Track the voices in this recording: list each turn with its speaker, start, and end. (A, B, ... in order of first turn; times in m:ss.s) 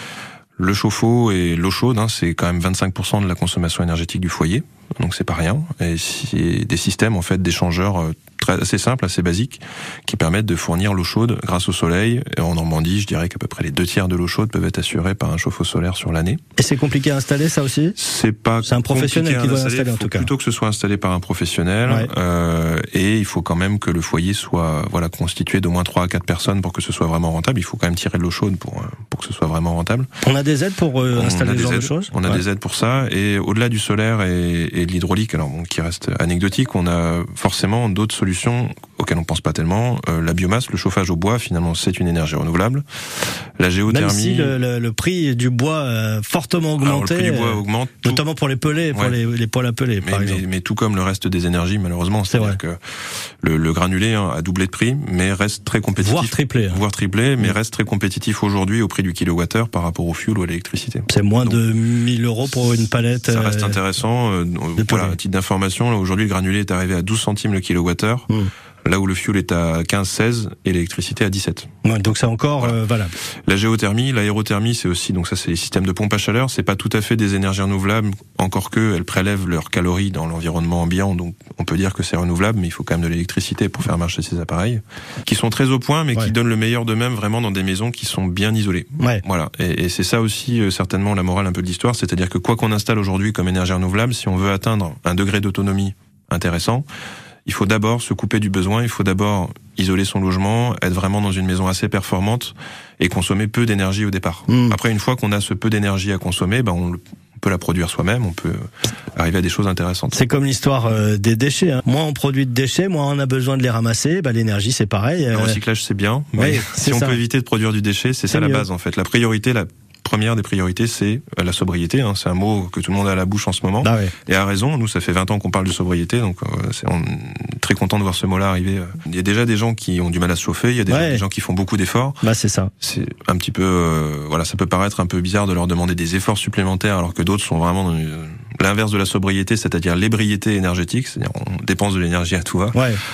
0:00.6-0:16.4 A
0:16.6-0:18.0 B
0:18.0-0:30.1 A
0:18.6-0:20.3 B
0:30.2-0:32.4 B
0:31.1-0:42.8 A
0:43.6-0:44.6 A
0:43.9-0:50.4 B
0:46.8-0:48.2 A
0:48.9-0:49.2 A
0:50.0-0:52.8 A
0:52.3-0:52.6 B
0:53.4-1:01.6 A
0:56.0-0:56.8 B
1:01.1-1:03.8 B
1:02.4-1:08.3 A
1:04.8-1:05.2 B
1:08.8-1:11.7 A
1:11.8-1:13.1 B
1:13.5-1:36.8 A
1:37.4-1:48.6 A
1:44.5-1:44.8 B
1:49.1-1:50.2 A
1:50.1-1:55.6 B
1:55.3-2:12.2 A
1:56.4-1:57.2 B
1:58.3-1:58.6 B
2:03.8-2:04.1 B
2:10.9-2:11.2 B
2:12.2-2:12.7 B
2:12.8-2:22.8 A
2:22.7-2:23.0 B